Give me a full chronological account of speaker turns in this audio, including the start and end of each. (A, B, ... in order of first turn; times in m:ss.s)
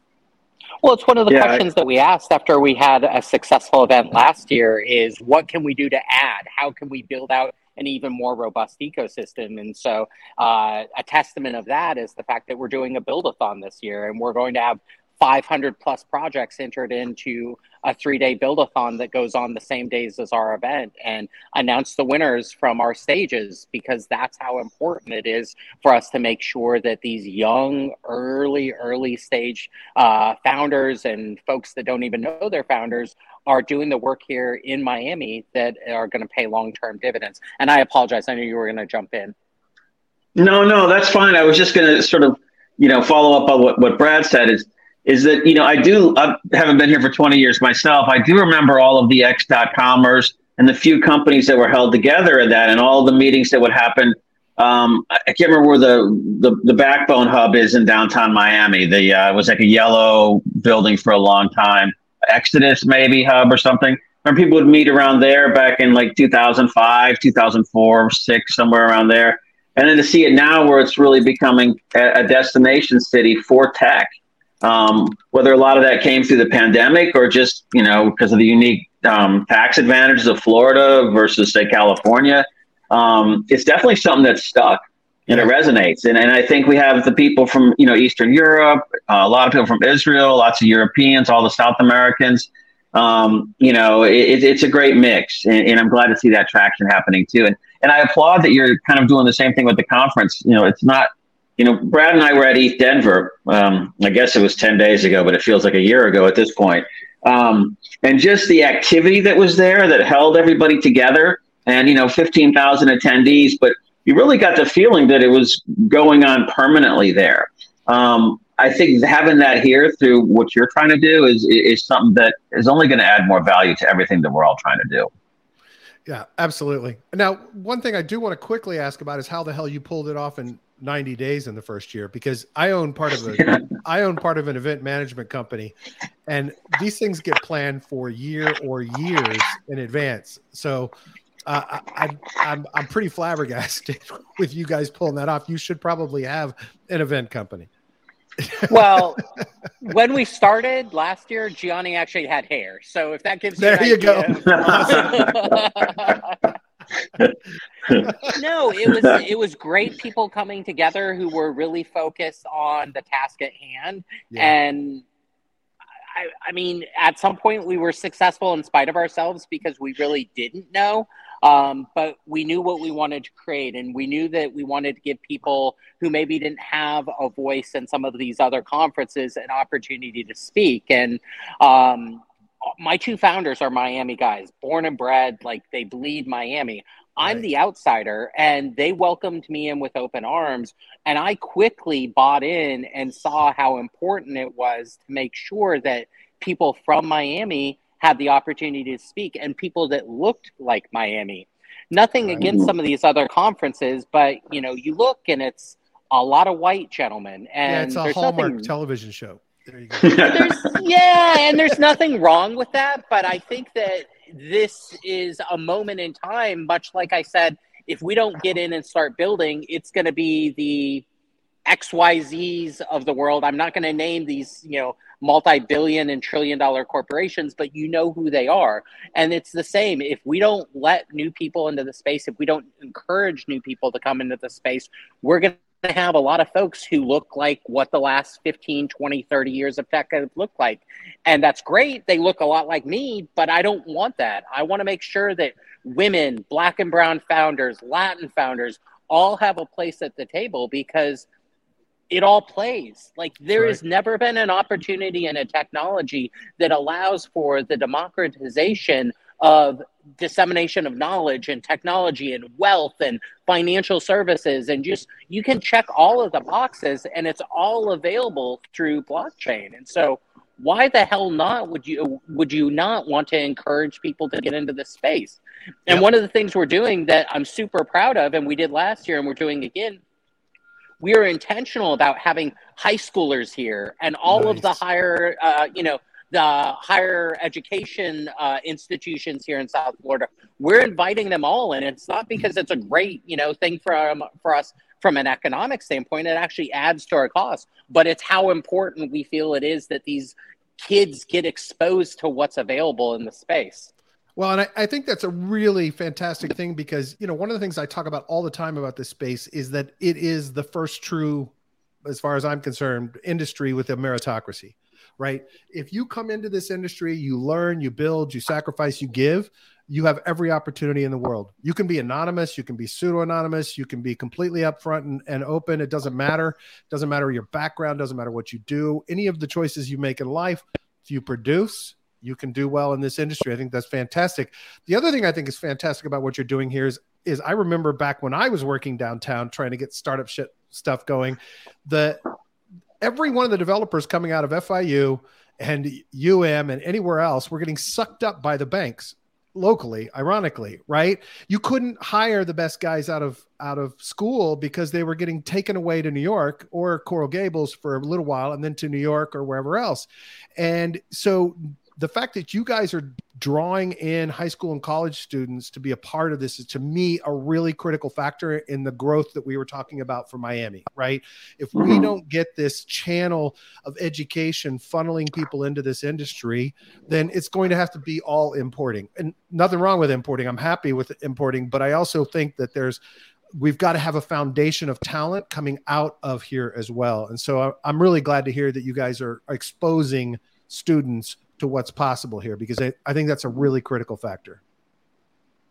0:00.8-0:39.3 A
0:01.3-0:01.6 B
0:40.4-1:14.1 B
1:14.6-2:05.1 B
2:06.0-2:15.7 C
2:16.3-2:20.9 C
2:21.5-2:27.7 C
2:28.4-2:29.0 C
2:28.6-2:29.2 A
2:29.8-2:36.4 A
2:33.6-2:35.2 C
2:34.5-2:36.1 B
2:37.8-2:38.1 B
2:38.2-2:45.0 A
2:38.8-2:39.2 B
2:46.1-3:28.7 A
3:07.2-3:07.4 C
3:22.4-3:22.7 B
3:27.6-3:30.4 C
3:30.0-3:30.7 B
3:30.2-3:41.0 A
3:41.7-4:11.2 A
4:12.1-4:40.0 A
4:13.5-4:13.8 C
4:41.0-5:03.9 A
4:44.3-4:44.8 C
5:04.4-5:11.5 C
5:12.0-5:42.2 C
5:43.0-6:23.0 C
6:11.8-6:12.0 B
6:23.6-6:34.6 C